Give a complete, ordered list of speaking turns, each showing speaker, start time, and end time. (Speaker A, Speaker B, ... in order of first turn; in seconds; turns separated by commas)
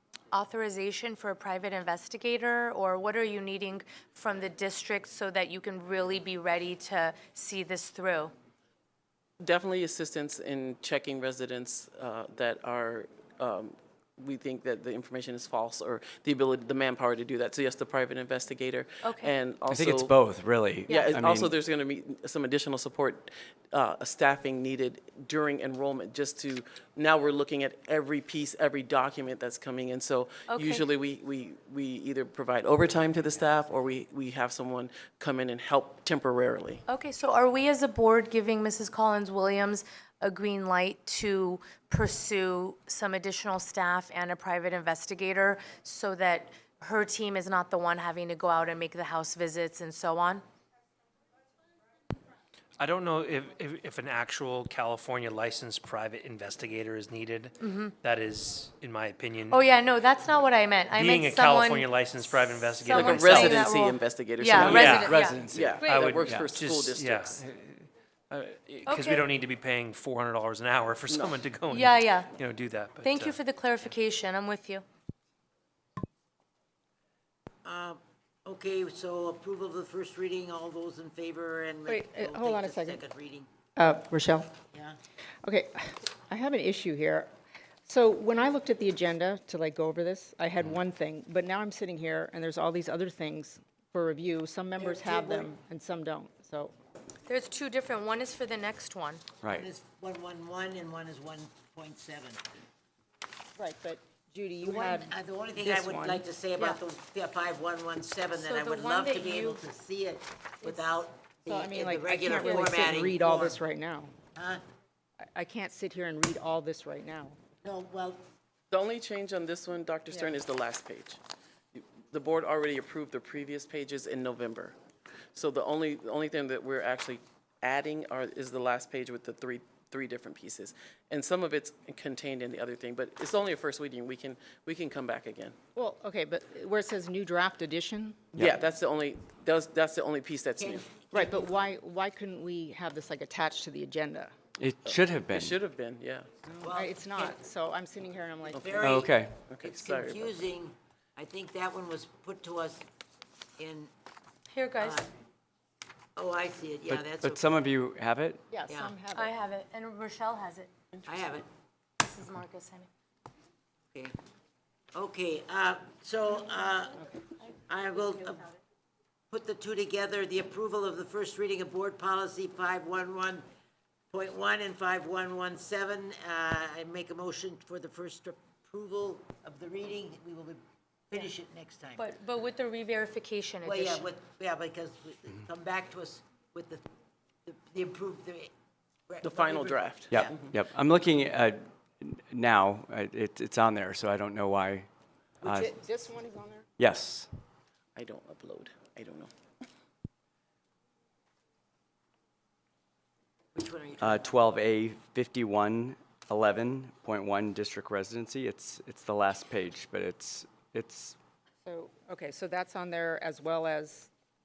Speaker A: 0.3-8.3, Speaker B: 9.4-20.1, Speaker A: 19.0-19.3, Speaker C: 19.7-21.5, Speaker A: 20.9-21.1, Speaker B: 20.9-36.8, Speaker A: 30.5-30.8, Speaker A: 36.9-50.4, Speaker D: 52.8-59.6, Speaker A: 57.6-57.9, Speaker A: 59.5-66.1, Speaker D: 60.9-63.7, Speaker B: 62.9-67.4, Speaker C: 64.5-66.5, Speaker D: 64.6-65.2, Speaker D: 65.8-73.4, Speaker B: 68.3-68.8, Speaker A: 68.9-69.2, Speaker B: 71.1-71.4, Speaker A: 71.7-72.4, Speaker A: 73.0-74.8, Speaker E: 77.7-83.5, Speaker F: 81.9-83.0, Speaker F: 83.8-84.6, Speaker E: 84.7-85.0, Speaker F: 85.4-87.3, Speaker F: 87.9-96.7, Speaker E: 94.8-95.5, Speaker A: 97.3-99.2, Speaker C: 99.4-99.7, Speaker E: 99.5-102.4, Speaker F: 103.6-106.2, Speaker E: 104.6-113.6, Speaker A: 108.3-109.6, Speaker F: 111.5-114.1, Speaker A: 112.4-112.8, Speaker E: 114.3-114.6, Speaker F: 115.3-117.4, Speaker E: 117.6-118.2, Speaker B: 118.7-121.2, Speaker B: 121.7-124.8, Speaker B: 125.3-135.6, Speaker F: 135.8-138.2, Speaker B: 138.4-140.9, Speaker E: 140.6-141.4, Speaker F: 141.1-144.3, Speaker C: 144.6-145.6, Speaker B: 145.3-146.3, Speaker F: 146.5-148.8, Speaker E: 146.6-147.4, Speaker E: 148.4-152.8, Speaker C: 148.8-149.3, Speaker B: 149.5-150.3, Speaker E: 153.6-153.9, Speaker A: 154.5-155.0, Speaker E: 154.8-155.1, Speaker E: 156.2-157.4, Speaker C: 156.9-158.4, Speaker F: 158.5-159.3, Speaker E: 158.7-159.0, Speaker A: 159.1-160.7, Speaker E: 161.1-161.5, Speaker A: 162.0-162.9, Speaker E: 164.9-168.6, Speaker E: 169.3-173.4, Speaker E: 174.1-182.1, Speaker A: 182.0-184.1, Speaker E: 183.6-186.8, Speaker E: 187.5-188.5, Speaker E: 189.1-190.3, Speaker B: 189.2-190.5, Speaker C: 190.1-194.9, Speaker F: 195.4-196.7, Speaker C: 195.4-195.7, Speaker C: 196.8-197.3, Speaker B: 198.0-199.3, Speaker E: 203.5-204.4, Speaker C: 204.0-211.2, Speaker F: 211.7-214.1